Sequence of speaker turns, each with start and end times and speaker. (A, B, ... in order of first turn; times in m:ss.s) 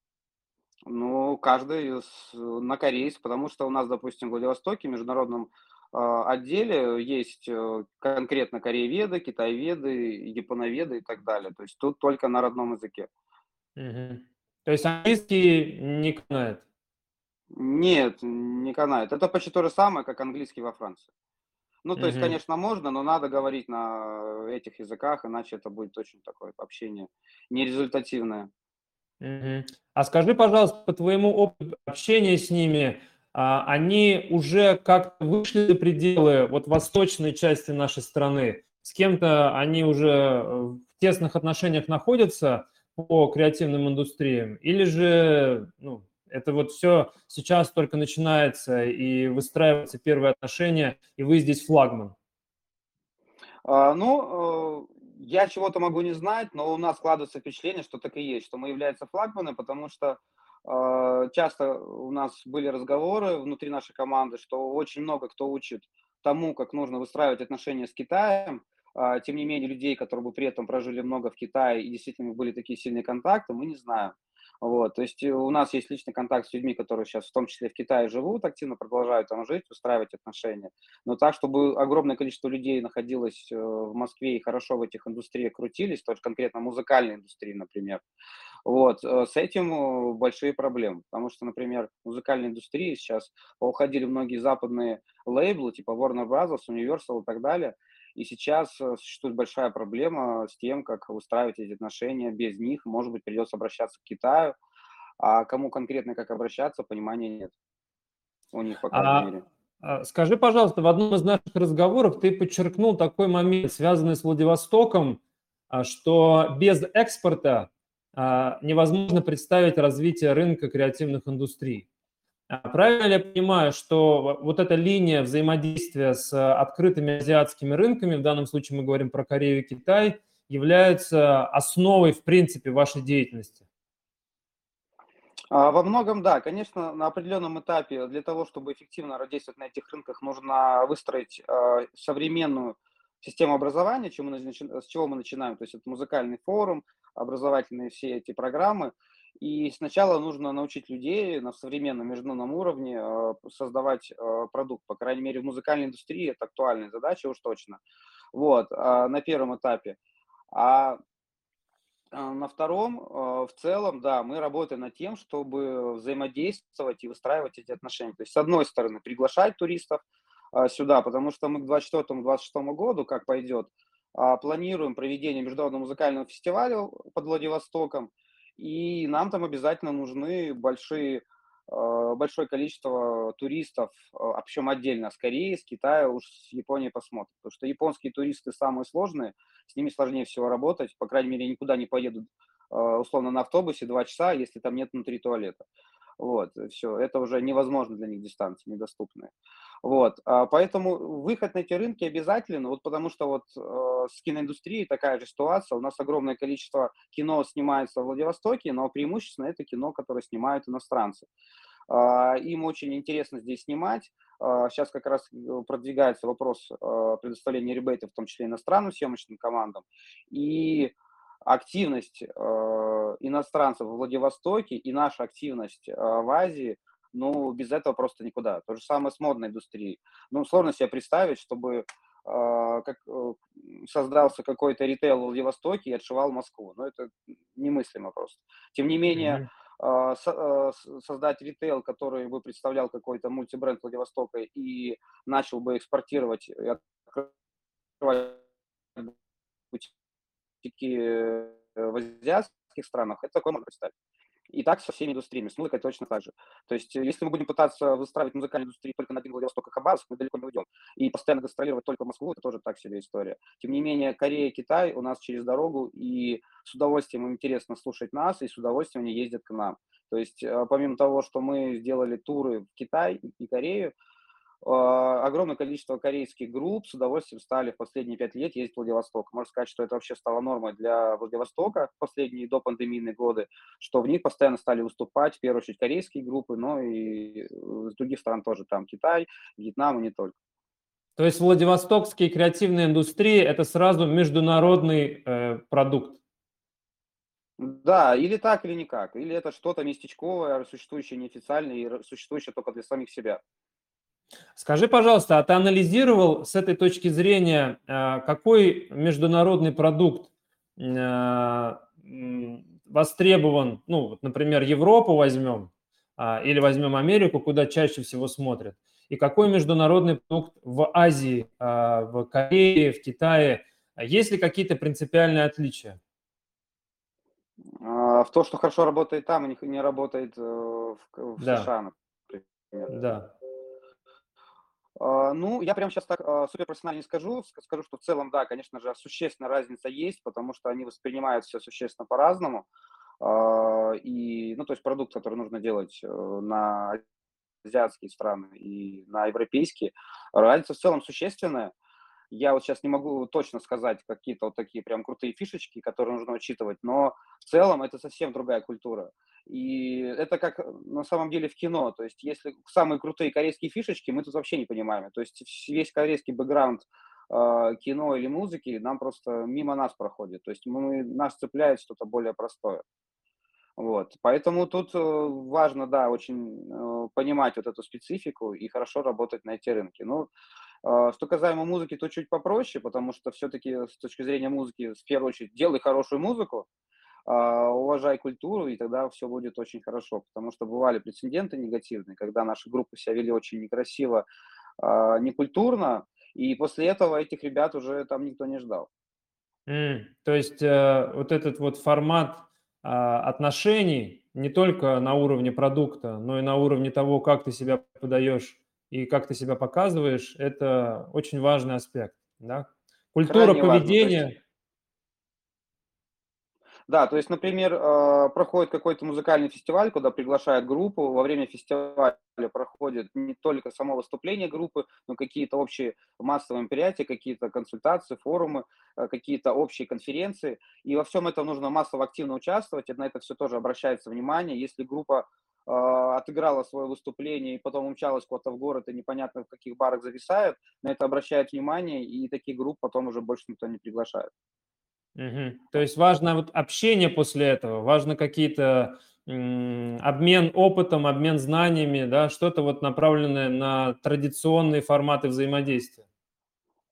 0:00.9-0:13.1 A
0:13.8-0:16.6 B
0:17.5-0:21.1 A
0:21.8-0:28.5 A
0:22.0-0:22.4 B
0:29.2-0:52.1 B
0:53.6-1:28.0 A
1:28.6-1:44.6 A
1:45.2-1:47.5 A
1:48.5-1:49.4 A
1:48.9-1:49.3 B
1:49.8-2:01.9 B
2:02.5-2:13.6 B
2:15.5-2:37.8 A
2:38.3-2:40.0 A
2:40.5-2:41.0 A
2:42.1-2:50.0 A
2:50.5-3:15.6 A
3:16.2-3:19.3 A
3:19.8-3:31.2 A
3:31.9-3:40.9 A
3:41.4-4:07.3 A
3:59.1-3:59.4 B
4:08.0-4:08.4 A
4:10.6-4:13.9 A
4:14.5-4:33.9 A
4:34.6-4:50.3 A
4:51.2-4:56.2 B
4:57.6-5:03.4 A
5:04.6-5:26.0 B
5:27.8-5:32.9 A
5:31.4-5:31.7 B
5:32.9-5:33.3 B
5:35.0-5:42.7 A
5:43.2-5:47.0 A
5:47.6-5:51.7 A
5:52.3-6:12.8 A
6:13.8-6:20.3 A
6:20.8-6:26.7 A
6:27.3-6:34.2 A
6:34.8-6:38.9 A
6:39.7-6:54.3 B
6:53.3-6:54.3 A
6:56.9-7:24.3 A
7:25.2-7:36.0 B